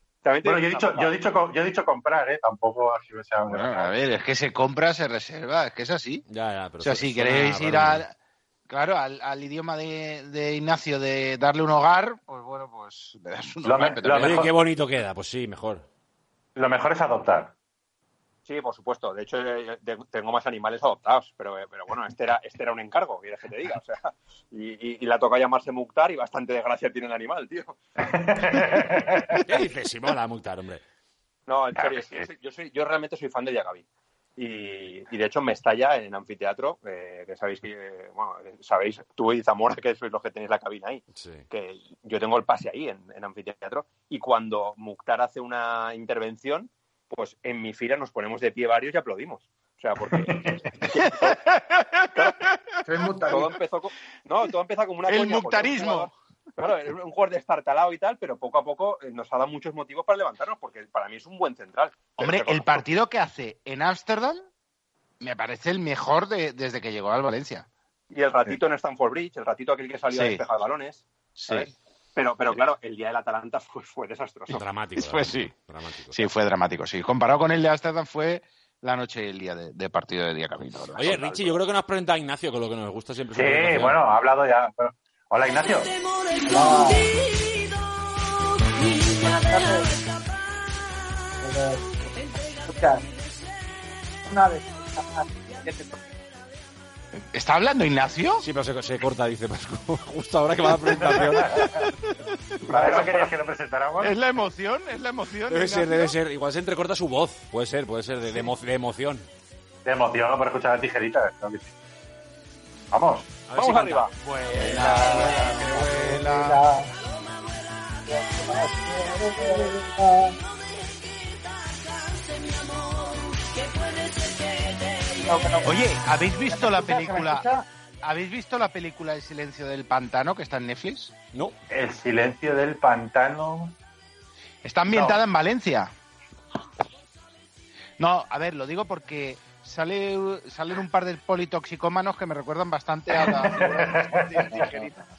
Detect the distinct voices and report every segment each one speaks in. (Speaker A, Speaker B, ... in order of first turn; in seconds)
Speaker A: 0.2-1.2, 18.5-27.8, 31.5-33.9, 34.4-51.5, 52.1-52.5, 53.3-62.8, 68.1-74.6, 81.1-81.4, 95.7-95.9, 113.5-114.1
Speaker B: 0.4-3.9, 13.7-14.5, 16.6-17.5, 28.0-29.4, 31.8-32.3, 50.2-50.6, 83.3-86.0, 100.9-101.9, 102.7-104.2, 109.8-111.7, 112.9-114.0, 131.7-133.8, 134.9-135.2, 143.2-144.6
Speaker C: 3.5-6.2, 6.8-8.1, 8.7-14.4, 51.3-52.1, 55.1-56.1, 62.2-64.5, 65.2-67.7, 70.1-70.4, 71.4-71.7, 75.0-75.5, 76.1-81.3, 97.3-98.5, 101.2-103.0, 104.0-106.2, 114.2-116.6, 125.6-127.5, 128.0-131.2, 134.6-135.9, 138.0-144.9
Speaker D: 6.3-8.0, 14.1-15.9, 29.4-30.8, 41.2-41.4, 74.5-76.3, 81.0-84.0, 98.4-101.8, 105.5-109.3, 113.5-114.0, 114.8-115.0
Speaker E: 52.9-53.5, 86.4-87.2, 89.2-89.9, 91.4-93.0, 94.2-95.2, 114.7-116.9, 118.1-120.3, 125.0-125.9, 126.4-127.7, 144.4-145.0